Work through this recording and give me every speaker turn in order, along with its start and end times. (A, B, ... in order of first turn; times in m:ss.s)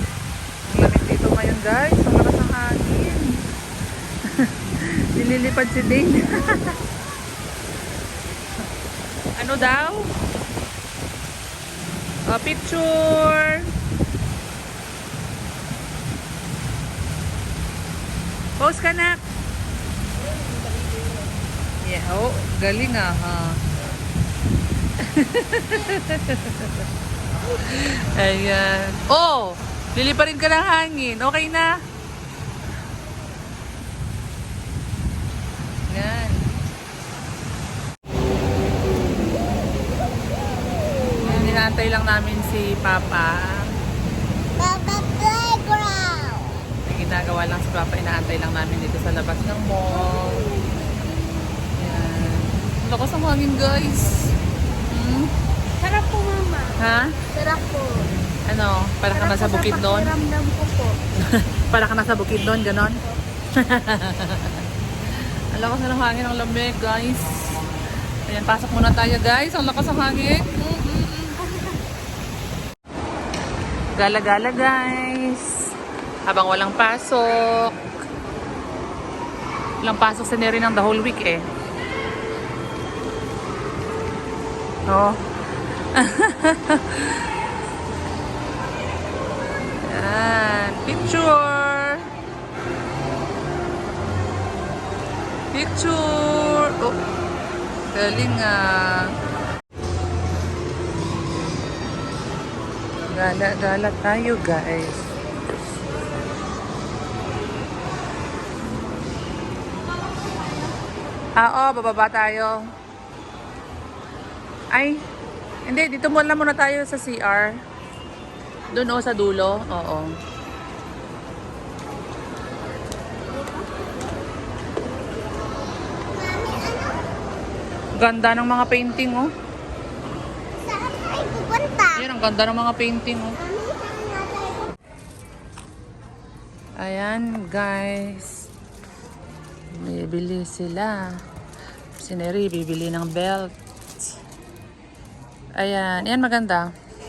0:00.6-0:03.4 A
0:04.2-0:06.8 A
0:09.4-0:10.1 A
0:12.3-0:13.7 A
0:18.6-0:19.2 A
0:21.8-0:23.6 A
0:25.0-0:26.9 A
0:27.5-0:31.7 A
0:35.9-0:36.5 A
0:41.2-0:43.7 A
0:44.7-0:46.5 B
0:46.8-0:50.4 A
0:49.9-0:50.8 C
0:51.8-0:54.4 A
0:54.9-0:55.3 A
0:55.8-0:58.0 C
0:56.8-0:57.2 A
0:58.5-1:00.1 A
0:59.1-1:01.0 C
1:01.2-1:03.0 A
1:03.6-1:07.7 A
1:08.3-1:11.4 A
1:14.0-1:15.7 A
1:16.3-1:17.8 A
1:19.8-1:21.4 A
1:24.9-1:25.2 A
1:25.9-1:27.3 A
1:29.8-1:32.1 A
1:35.5-1:37.0 A
1:37.9-1:39.1 A
1:43.1-1:45.1 A
1:50.0-1:50.9 C
1:51.4-1:52.6 A
1:54.7-1:55.0 A
1:55.7-1:57.5 A
1:58.7-2:00.1 A
2:03.3-2:03.9 C
2:06.4-2:06.7 B
2:08.0-2:09.3 A
2:10.8-2:11.8 B
2:11.9-2:13.4 A
2:13.6-2:14.6 B
2:16.8-2:18.5 A
2:19.7-2:21.0 A
2:22.0-2:24.1 A
2:25.6-2:26.7 A